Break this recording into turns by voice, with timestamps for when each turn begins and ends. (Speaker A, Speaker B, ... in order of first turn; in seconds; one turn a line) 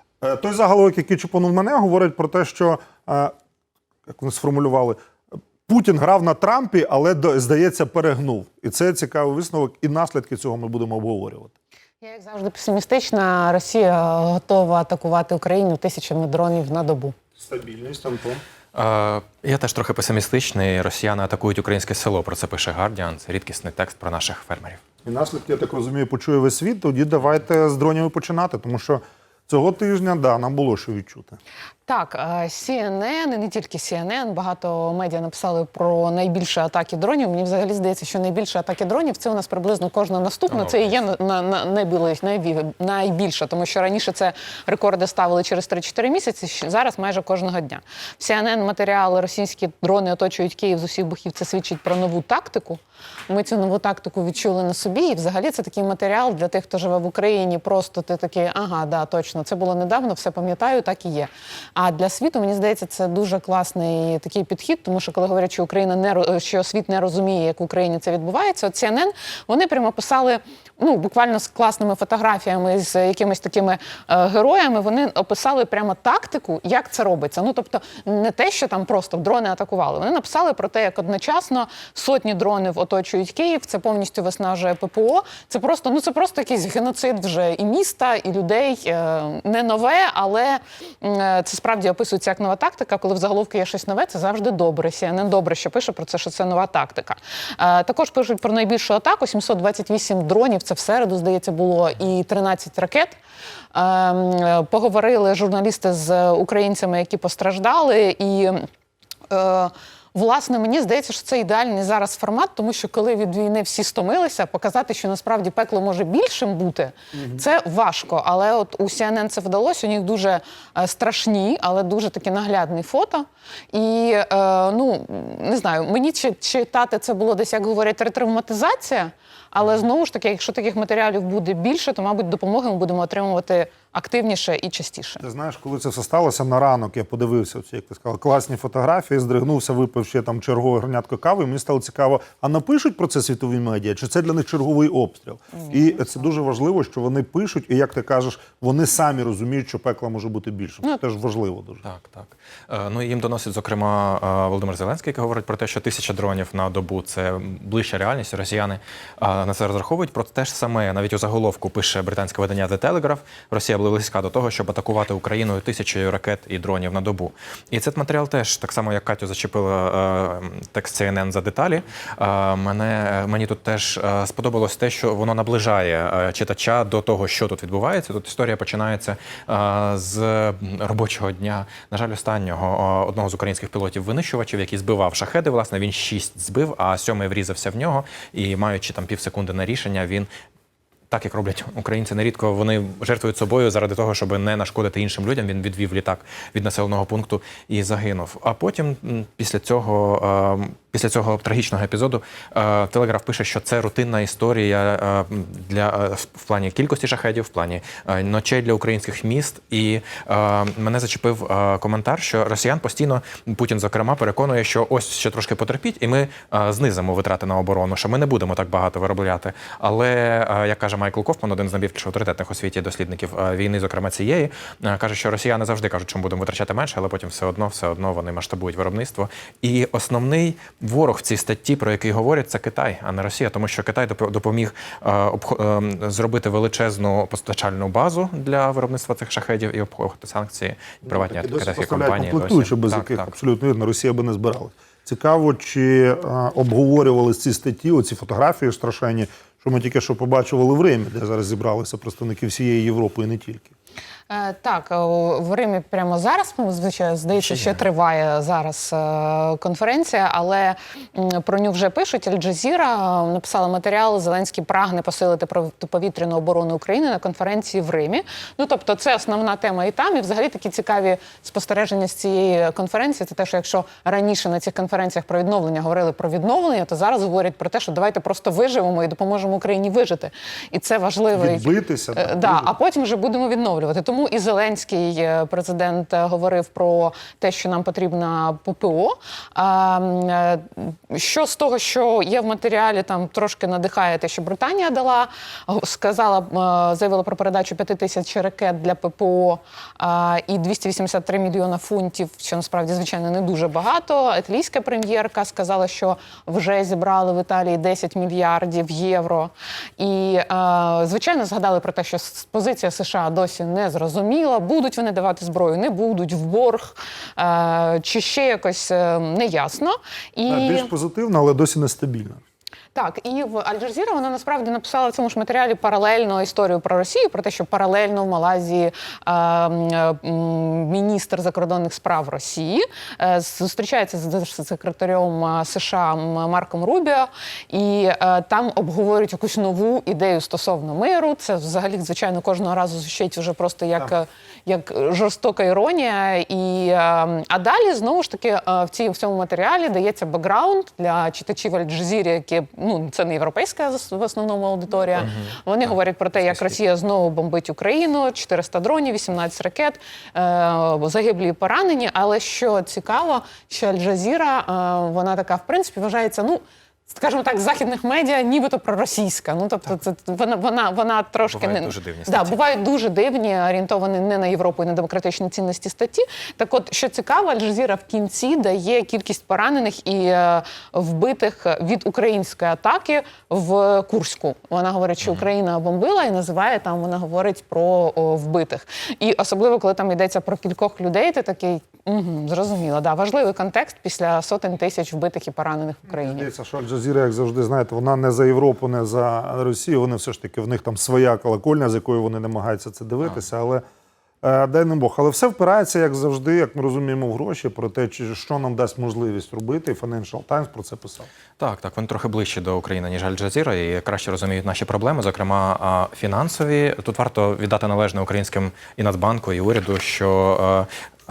Speaker A: 0.2-3.3
Speaker A: 4.1-5.0
Speaker A: 5.7-11.5
Speaker B: 12.0-17.1
Speaker A: 17.4-18.4
Speaker C: 18.7-24.8
Speaker A: 25.0-31.4
Speaker B: 31.9-103.2
Speaker C: 40.5-41.0
Speaker B: 103.7-108.7
Speaker B: 109.3-135.2
Speaker A: 117.1-117.4
Speaker A: 135.2-151.8
Speaker B: 145.6-146.2
Speaker C: 151.8-190.3
Speaker C: 191.1-243.3
Speaker A: 241.1-253.7
Speaker B: 254.3-320.9
Speaker C: 257.3-257.8
Speaker A: 281.3-282.7
Speaker A: 320.5-322.4
Speaker B: 322.9-396.5
Speaker C: 355.2-356.8
Speaker C: 371.4-372.6
Speaker C: 385.2-385.5
Speaker A: 396.1-403.8
Speaker A: 404.4-411.3
Speaker C: 411.6-420.9